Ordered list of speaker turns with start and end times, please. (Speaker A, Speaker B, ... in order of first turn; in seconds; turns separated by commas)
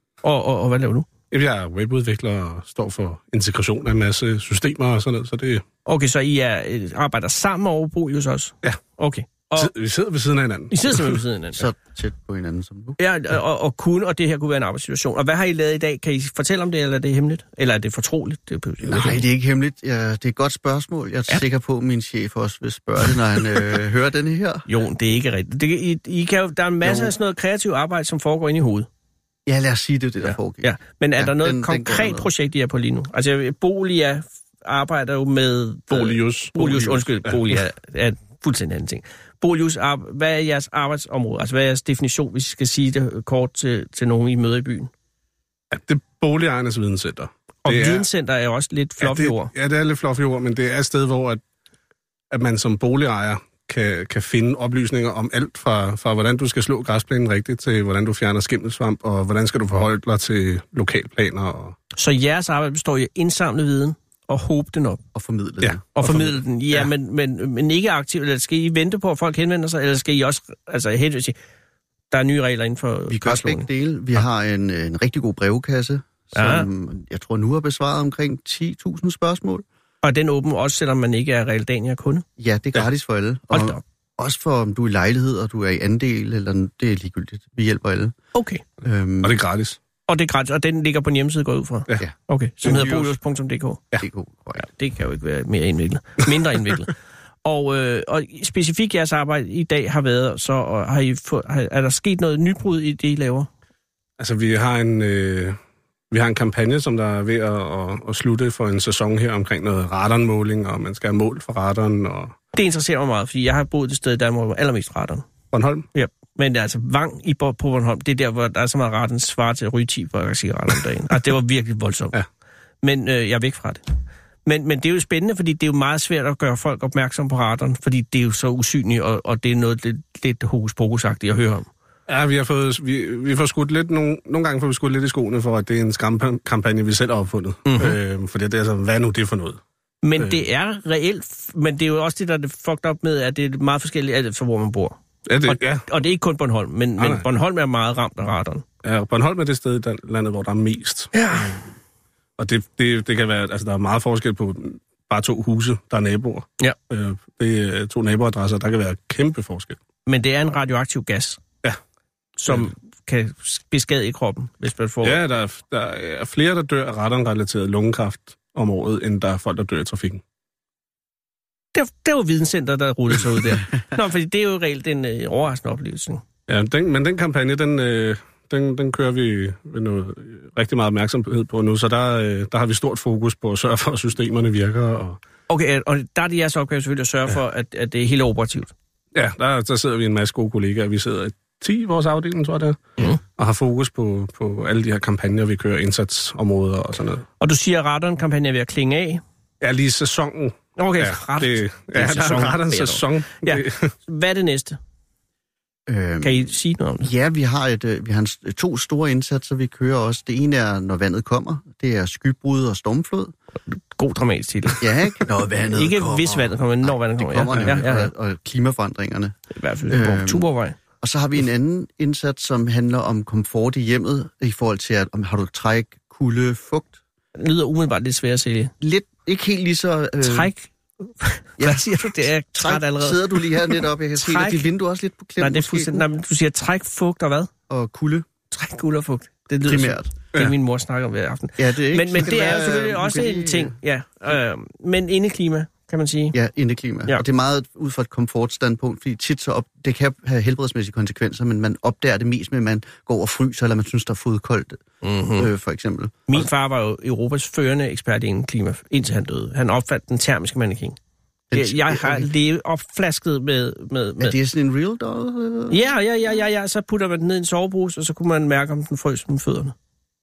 Speaker A: 0.2-1.1, Speaker B: 1.3-5.6, Speaker A: 5.8-9.7, Speaker B: 9.6-11.0, Speaker A: 10.7-11.7, Speaker C: 11.6-13.0, Speaker A: 13.0-19.3, Speaker C: 18.8-24.6, Speaker A: 24.7-28.9, Speaker C: 29.4-32.3, Speaker A: 30.2-44.9, Speaker B: 35.9-36.6, Speaker B: 45.7-48.0, Speaker A: 47.6-49.5, Speaker B: 49.0-51.4, Speaker B: 52.3-61.8, Speaker A: 61.9-65.0, Speaker C: 65.1-65.8, Speaker B: 65.6-66.3, Speaker A: 65.9-71.4, Speaker A: 72.1-73.7, Speaker C: 73.1-79.6, Speaker A: 76.3-76.7, Speaker A: 80.0-82.2, Speaker C: 82.4-88.1, Speaker A: 83.5-83.8, Speaker A: 88.3-88.6, Speaker C: 88.8-89.3, Speaker B: 89.2-89.8, Speaker A: 90.1-93.8, Speaker C: 92.6-93.1, Speaker C: 94.0-94.6, Speaker A: 94.6-103.5, Speaker B: 104.2-105.6, Speaker B: 106.1-112.3, Speaker A: 112.5-115.3, Speaker B: 115.5-115.8, Speaker A: 115.9-122.2, Speaker A: 122.8-123.8, Speaker A: 124.4-131.7, Speaker B: 132.1-139.6, Speaker A: 137.7-138.0, Speaker A: 140.0-148.6, Speaker B: 145.3-145.8, Speaker B: 147.0-147.2, Speaker B: 148.8-151.6, Speaker A: 151.1-151.6, Speaker B: 152.4-159.8, Speaker A: 160.1-161.4, Speaker A: 162.4-165.2, Speaker B: 165.0-170.2, Speaker A: 171.7-176.2, Speaker B: 176.5-185.2, Speaker A: 185.5-188.7, Speaker B: 189.1-197.2, Speaker A: 197.4-199.2, Speaker B: 199.6-203.9, Speaker A: 200.8-204.8, Speaker C: 205.9-213.3, Speaker A: 206.2-207.1, Speaker A: 213.7-215.0, Speaker C: 214.8-219.4, Speaker A: 215.7-218.1, Speaker A: 219.5-220.8, Speaker C: 219.9-220.4, Speaker C: 221.0-227.0, Speaker A: 227.3-228.7, Speaker C: 228.8-230.5, Speaker A: 230.2-234.7, Speaker C: 231.6-231.9, Speaker C: 232.5-236.0, Speaker A: 235.4-237.5, Speaker C: 237.7-238.3, Speaker A: 238.5-246.3, Speaker C: 239.6-240.2, Speaker C: 241.6-243.7, Speaker C: 246.3-256.5, Speaker A: 255.0-255.5, Speaker A: 256.3-261.0, Speaker C: 261.5-262.3, Speaker A: 261.5-264.3, Speaker C: 264.2-265.8, Speaker A: 265.7-269.7